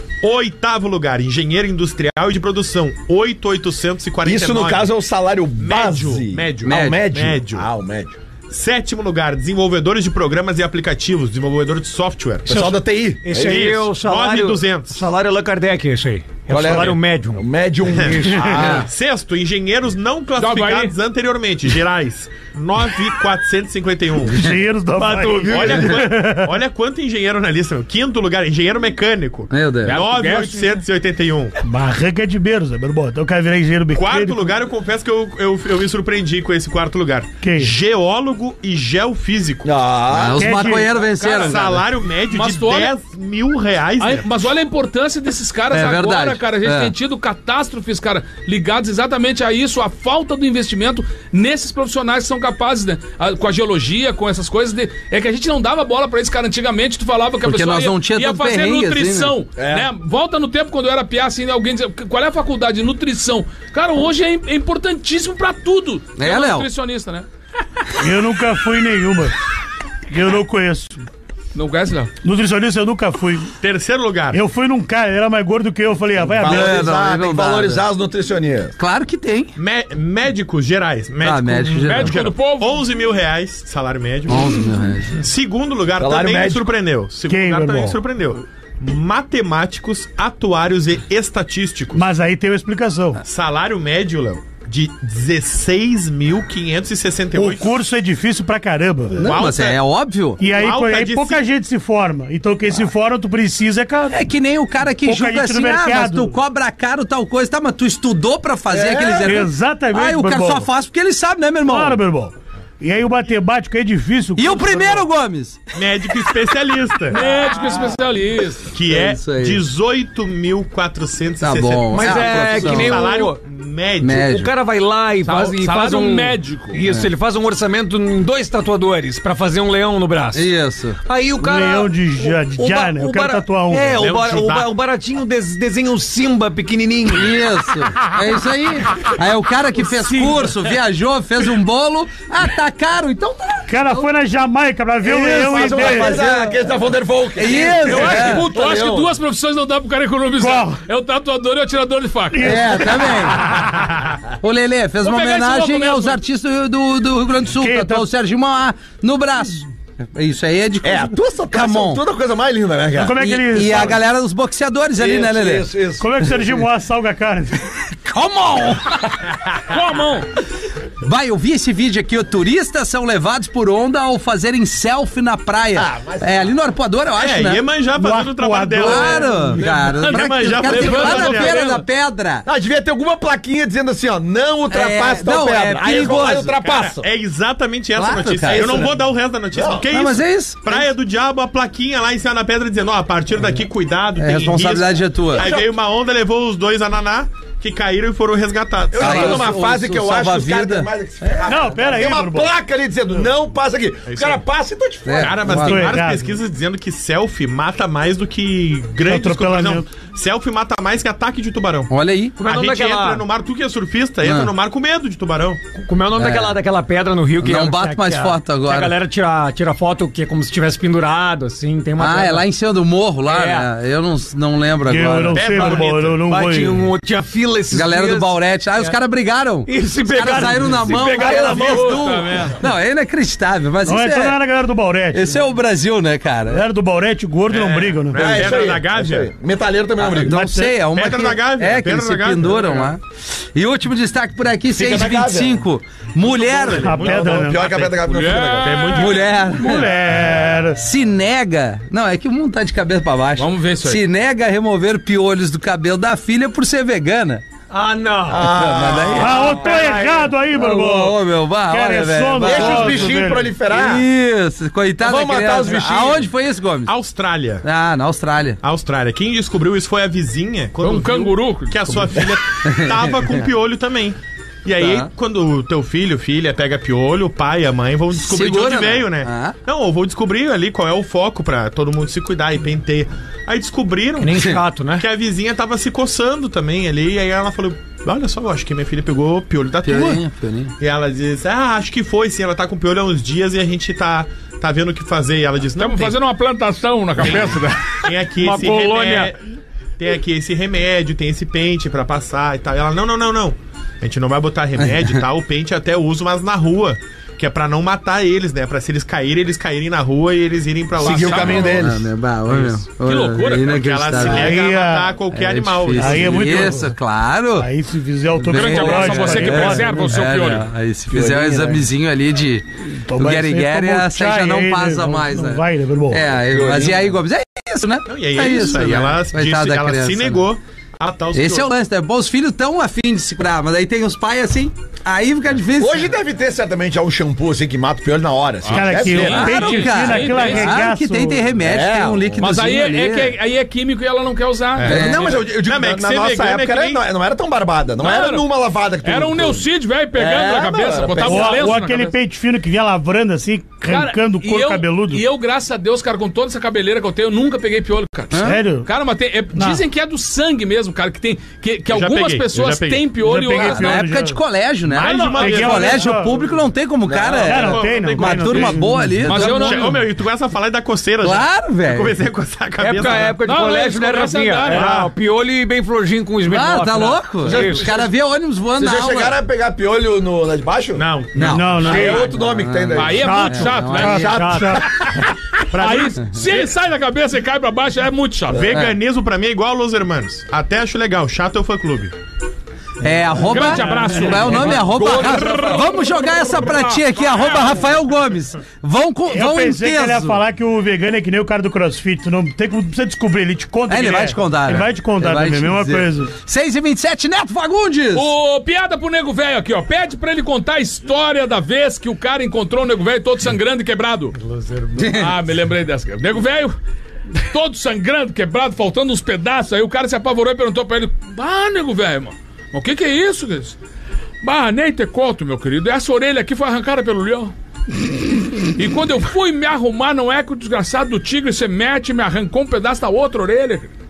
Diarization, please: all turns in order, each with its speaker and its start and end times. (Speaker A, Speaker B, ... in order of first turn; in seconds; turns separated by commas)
Speaker A: 0.2-4.9, Speaker B: 4.2-8.2, Speaker A: 5.6-7.7, Speaker C: 6.7-7.1, Speaker A: 8.5-12.6, Speaker D: 12.5-17.4, Speaker B: 12.5-13.8, Speaker A: 13.3-15.1, Speaker B: 16.5-18.9, Speaker A: 17.9-24.5, Speaker D: 18.0-18.6, Speaker C: 18.6-18.9, Speaker E: 20.4-20.9, Speaker F: 24.3-26.5, Speaker A: 25.0-31.6, Speaker D: 25.4-25.7, Speaker C: 29.5-30.0, Speaker E: 29.9-30.8, Speaker F: 31.6-34.6, Speaker A: 33.9-39.7, Speaker F: 37.4-37.8, Speaker B: 39.6-40.6, Speaker C: 40.1-41.9, Speaker F: 40.4-40.9, Speaker A: 41.1-44.3, Speaker E: 41.2-41.5, Speaker E: 42.3-42.9, Speaker E: 44.0-67.3, Speaker C: 45.7-46.9, Speaker C: 57.4-59.3, Speaker B: 59.6-59.9, Speaker C: 66.2-66.7, Speaker F: 68.0-69.3, Speaker F: 70.1-71.0, Speaker E: 71.5-72.1, Speaker F: 72.2-73.5, Speaker A: 73.6-74.4, Speaker F: 74.3-76.9, Speaker B: 76.2-78.8, Speaker C: 76.4-77.8, Speaker C: 78.8-79.5, Speaker A: 79.6-84.4, Speaker C: 81.2-82.2, Speaker E: 81.8-82.8, Speaker C: 84.3-85.2, Speaker A: 85.2-92.0, Speaker B: 86.0-86.7, Speaker F: 87.3-88.0, Speaker F: 92.0-93.2, Speaker A: 93.2-97.8, Speaker F: 97.3-99.2, Speaker C: 99.2-100.4, Speaker A: 99.2-99.8, Speaker F: 100.4-104.2, Speaker A: 100.4-101.4, Speaker C: 104.1-112.0, Speaker F: 105.0-106.3, Speaker B: 108.7-109.4, Speaker F: 109.2-110.7, Speaker F: 111.7-115.0, Speaker C: 114.4-115.7, Speaker A: 115.8-117.2, Speaker E: 117.1-118.7, Speaker A: 118.7-124.3, Speaker C: 118.9-119.6, Speaker C: 121.4-123.0, Speaker D: 121.9-123.4, Speaker C: 124.0-124.5, Speaker D: 124.1-130.5, Speaker E: 125.2-126.8, Speaker C: 130.3-131.0, Speaker D: 131.1-137.3, Speaker F: 131.4-134.0, Speaker A: 134.0-134.7, Speaker C: 137.1-144.1, Speaker D: 140.1-140.3, Speaker F: 143.7-146.2, Speaker C: 145.1-146.6, Speaker B: 145.1-149.1, Speaker C: 147.4-148.5, Speaker E: 147.8-152.9, Speaker F: 150.4-150.8, Speaker F: 152.3-153.9, Speaker C: 152.4-153.5, Speaker C: 154.4-162.0, Speaker E: 155.0-156.2, Speaker F: 157.6-158.1, Speaker B: 160.8-163.9, Speaker F: 163.0-164.0, Speaker C: 163.2-165.7, Speaker B: 165.0-166.5, Speaker F: 166.0-167.6, Speaker C: 168.0-169.4, Speaker E: 169.7-170.3, Speaker C: 171.0-177.7, Speaker B: 175.7-176.5, Speaker A: 177.1-181.7, Speaker F: 178.0-179.6, Speaker C: 178.8-182.5, Speaker E: 180.0-181.8, Speaker B: 182.4-187.1, Speaker C: 184.7-186.5, Speaker A: 185.8-199.5, Speaker C: 188.0-188.9, Speaker B: 188.4-189.0, Speaker B: 189.5-189.9, Speaker C: 189.9-190.9, Speaker C: 194.2-195.5, Speaker B: 195.3-195.7, Speaker B: 198.9-205.5, Speaker C: 199.0-201.5, Speaker F: 201.5-202.5, Speaker A: 204.1-204.4, Speaker C: 205.1-206.0, Speaker A: 205.1-211.9, Speaker F: 205.5-206.2, Speaker F: 209.0-209.9, Speaker C: 211.9-212.4, Speaker D: 212.4-213.3, Speaker A: 212.4-215.6, Speaker C: 214.2-214.5, Speaker D: 215.8-222.4, Speaker C: 216.1-216.6, Speaker C: 217.4-219.0, Speaker C: 222.0-225.6, Speaker D: 223.2-223.7, Speaker F: 224.9-226.9, Speaker A: 225.3-226.2, Speaker D: 225.6-228.9, Speaker C: 227.7-234.4, Speaker D: 229.7-232.1, Speaker E: 231.2-232.6, Speaker F: 233.8-235.4, Speaker C: 235.1-236.6, Speaker F: 236.5-238.5, Speaker A: 237.5-239.3, Speaker B: 238.2-240.4, Speaker C: 240.0-247.2, Speaker F: 240.2-240.7, Speaker A: 240.8-242.9, Speaker B: 244.7-245.6, Speaker A: 246.2-247.9, Speaker F: 246.8-247.6, Speaker B: 247.1-249.0, Speaker E: 247.9-249.3, Speaker A: 248.6-249.4, Speaker C: 249.0-250.0, Speaker F: 249.5-250.8, Speaker C: 250.8-257.4, Speaker E: 253.4-254.0, Speaker D: 257.7-258.5, Speaker B: 258.3-259.5, Speaker C: 258.4-259.7, Speaker F: 259.2-263.5, Speaker D: 259.2-260.4, Speaker C: 260.5-266.9, Speaker B: 262.4-264.1, Speaker B: 265.0-266.3, Speaker A: 266.9-267.6, Speaker C: 267.6-268.6, Speaker A: 268.6-284.4, Speaker E: 270.8-272.0, Speaker C: 272.7-273.4, Speaker C: 274.8-275.1, Speaker C: 278.1-279.6, Speaker D: 284.2-285.1, Speaker A: 285.0-290.2, Speaker C: 289.8-290.7, Speaker A: 290.8-296.1, Speaker E: 295.8-298.0, Speaker A: 297.2-299.4, Speaker D: 298.4-299.3, Speaker A: 300.0-311.9, Speaker C: 304.8-305.1, Speaker B: 311.0-312.1, Speaker E: 311.0-311.8, Speaker C: 311.7-314.6, Speaker E: 313.0-313.8, Speaker A: 313.6-316.7, Speaker F: 314.2-315.1, Speaker C: 315.3-317.7, Speaker F: 316.0-316.9, Speaker F: 317.6-320.2, Speaker C: 318.4-330.4, Speaker E: 318.5-320.7, Speaker B: 321.1-321.9, Speaker F: 322.8-326.2, Speaker B: 326.4-327.2, Speaker A: 328.1-331.7, Speaker C: 331.3-336.1, Speaker B: 335.8-339.6, Speaker E: 338.7-340.8, Speaker F: 338.7-341.4, Speaker C: 339.2-343.4, Speaker B: 341.6-342.5, Speaker E: 342.4-345.1, Speaker A: 344.8-347.0, Speaker B: 344.8-351.7, Speaker C: 344.9-345.3, Speaker E: 348.0-348.4, Speaker E: 349.0-352.1, Speaker F: 351.2-355.2, Speaker E: 353.9-364.1, Speaker C: 358.3-358.6, Speaker F: 358.4-358.9, Speaker F: 359.5-359.8, Speaker A: 361.9-363.1, Speaker F: 363.2-364.4, Speaker C: 363.6-369.9, Speaker A: 364.9-366.2, Speaker F: 365.3-366.4, Speaker B: 367.1-367.5, Speaker A: 367.2-373.4, Speaker F: 367.4-369.2, Speaker E: 369.2-370.0, Speaker C: 371.2-372.2, Speaker D: 372.8-377.9, Speaker E: 373.4-374.9, Speaker A: 374.7-375.1, Speaker C: 376.5-379.4, Speaker B: 377.4-378.1, Speaker B: 378.8-381.1, Speaker A: 380.9-382.0, Speaker C: 381.4-384.4, Speaker F: 381.4-382.3, Speaker B: 381.8-384.8, Speaker D: 381.9-382.3, Speaker E: 382.9-384.4, Speaker D: 383.2-384.8, Speaker F: 383.5-384.9, Speaker E: 385.6-388.7, Speaker A: 385.7-386.7, Speaker A: 388.5-392.1, Speaker C: 388.7-389.0, Speaker C: 393.0-400.4, Speaker E: 393.4-398.0, Speaker B: 394.5-396.4, Speaker F: 399.3-406.3, Speaker C: 403.9-408.3, Speaker E: 408.1-414.4, Speaker D: 414.5-414.9, Speaker C: 415.0-415.3, Speaker E: 415.0-416.8, Speaker E: 417.4-423.8, Speaker E: 424.4-427.5, Speaker E: 428.8-433.9